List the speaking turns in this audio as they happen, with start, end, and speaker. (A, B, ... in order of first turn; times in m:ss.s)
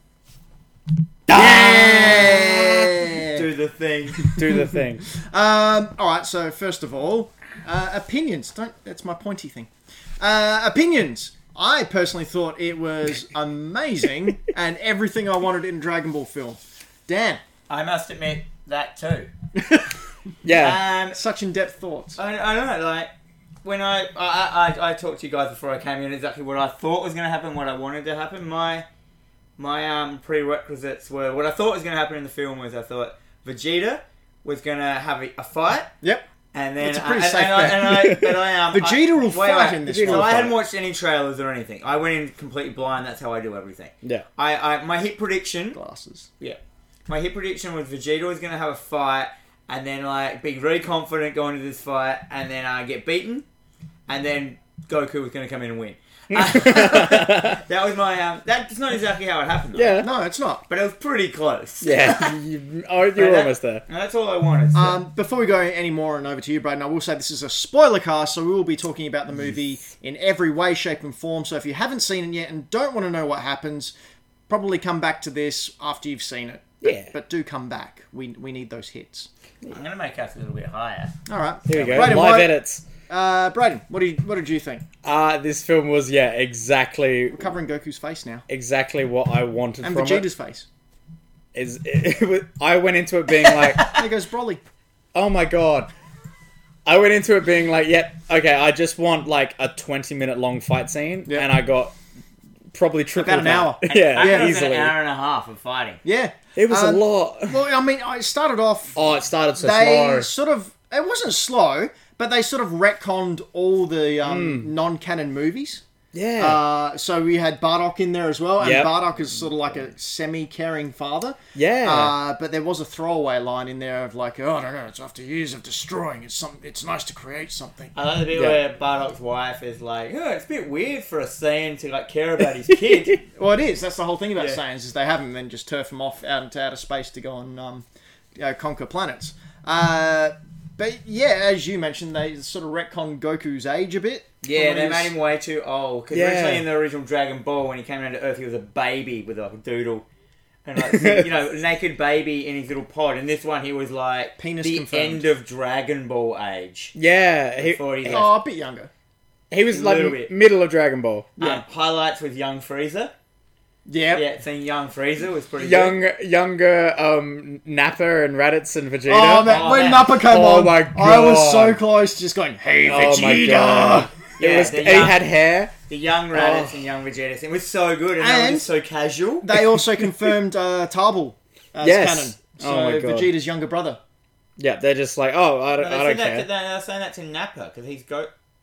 0:01.3-0:02.9 A
0:01.3-0:03.4 B
0:03.3-0:04.3 C
0:04.2-0:05.1 A
0:04.4-0:09.7 B
0:10.2-0:17.4 B
0:17.7-0:19.3 C
0:19.5-0:20.0 B
0:20.4-0:20.8 A
0:20.5-0:21.2 C
0:21.1-0:22.2 B
0:22.2-0:23.1 C
0:23.6-0:28.8 C
0:29.6-0:35.9 C
0:36.5-0:45.8 C
0:36.8-0:38.1 B
0:37.6-0:38.4 A
0:38.7-0:40.5 B
0:39.8-0:40.5 A
0:45.7-0:46.3 B
0:46.4-0:53.4 C
0:54.1-1:00.0 C
0:56.3-0:57.6 A
0:59.7-1:00.1 A
1:00.0-1:00.6 B
1:00.7-1:02.3 C
1:01.8-1:03.8 A
1:03.2-1:05.0 C
1:04.7-1:13.9 B
1:14.5-1:19.3 B
1:16.8-1:17.1 A
1:19.7-1:21.1 C
1:21.3-1:22.5 B
1:21.7-1:22.8 A
1:23.1-1:24.8 B
1:25.0-1:27.4 A
1:27.3-1:28.4 B
1:28.5-1:30.2 A
1:29.8-1:30.7 B
1:31.5-1:33.9 A
1:33.4-1:34.0 C
1:33.8-1:34.6 B
1:35.1-1:35.9 A
1:36.8-1:42.0 A
1:42.7-1:44.9 A
1:43.1-1:44.5 B
1:43.9-1:46.0 C
1:46.0-1:49.0 B
1:46.6-1:47.6 A
1:49.0-1:50.3 A
1:49.6-1:55.8 B
1:54.2-1:54.7 A
1:56.1-1:56.6 A
1:56.4-2:07.9 B
1:58.6-1:58.9 A
2:01.5-2:02.1 A
2:07.9-2:13.2 C
2:08.3-2:08.6 A
2:13.3-2:25.1 B
2:24.4-2:30.0 C
2:26.1-2:26.6 A
2:30.6-2:36.9 C
2:30.8-2:31.3 A
2:34.4-2:35.2 B
2:37.0-2:38.2 A
2:37.6-2:38.3 C
2:38.0-2:38.9 B
2:39.5-2:41.3 A
2:39.7-2:40.3 C
2:41.4-2:43.1 C
2:43.9-2:44.2 B
2:44.1-2:46.0 C
2:45.6-2:49.5 A
2:49.1-2:54.1 B
2:49.4-2:50.1 C
2:50.1-2:51.8 A
2:52.8-2:55.7 A
2:54.4-2:55.2 C
2:55.9-2:59.5 C
2:56.3-2:56.8 A
2:58.2-2:58.7 B
2:59.4-3:04.0 B
3:01.8-3:03.3 A
3:04.6-3:06.5 A
3:05.8-3:08.3 C